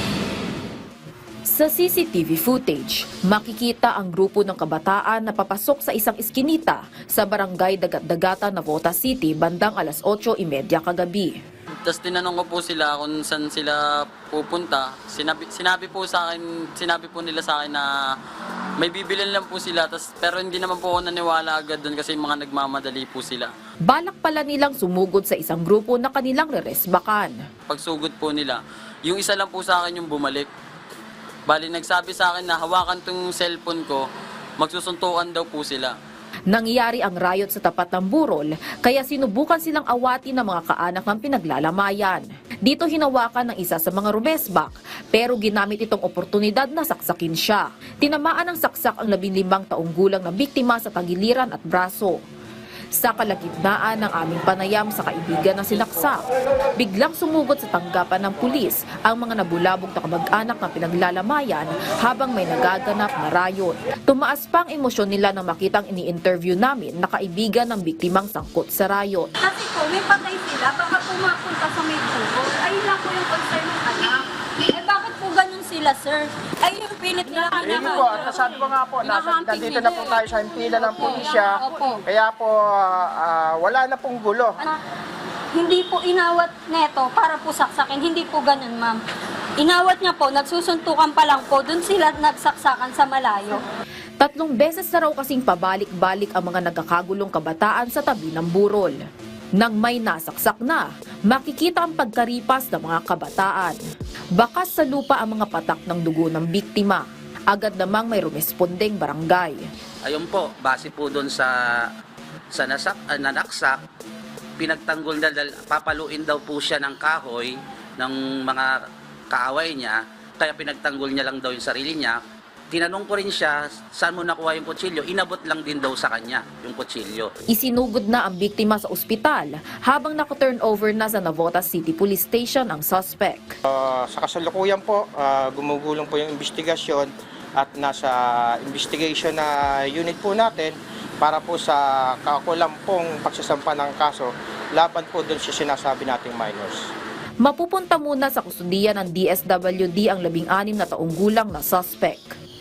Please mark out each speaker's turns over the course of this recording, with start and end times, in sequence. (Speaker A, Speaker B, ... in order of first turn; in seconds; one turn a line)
Speaker A: 1.5-11.4
Speaker B: 11.8-18.1
Speaker B: 18.8-23.5
Speaker A: 23.9-27.4
Speaker B: 27.7-30.5
Speaker B: 31.5-34.0
Speaker B: 34.6-36.0
Speaker A: 36.5-52.2
Speaker A: 53.0-56.2
Speaker A: 56.8-69.3
Speaker C: 69.4-82.0
Speaker D: 77.6-84.6
Speaker C: 85.5-89.0
Speaker C: 89.6-93.6
Speaker A: 94.2-99.0
Speaker A: 99.6-103.8
Speaker A: 104.4-109.7
Speaker E: 110.1-111.9
Speaker E: 112.5-113.8
Speaker E: 114.6-118.8
Speaker E: 119.3-122.2
Speaker E: 122.7-127.3
Speaker A: 127.5-133.6
Speaker D: 133.7-146.9
Speaker A: 147.4-152.4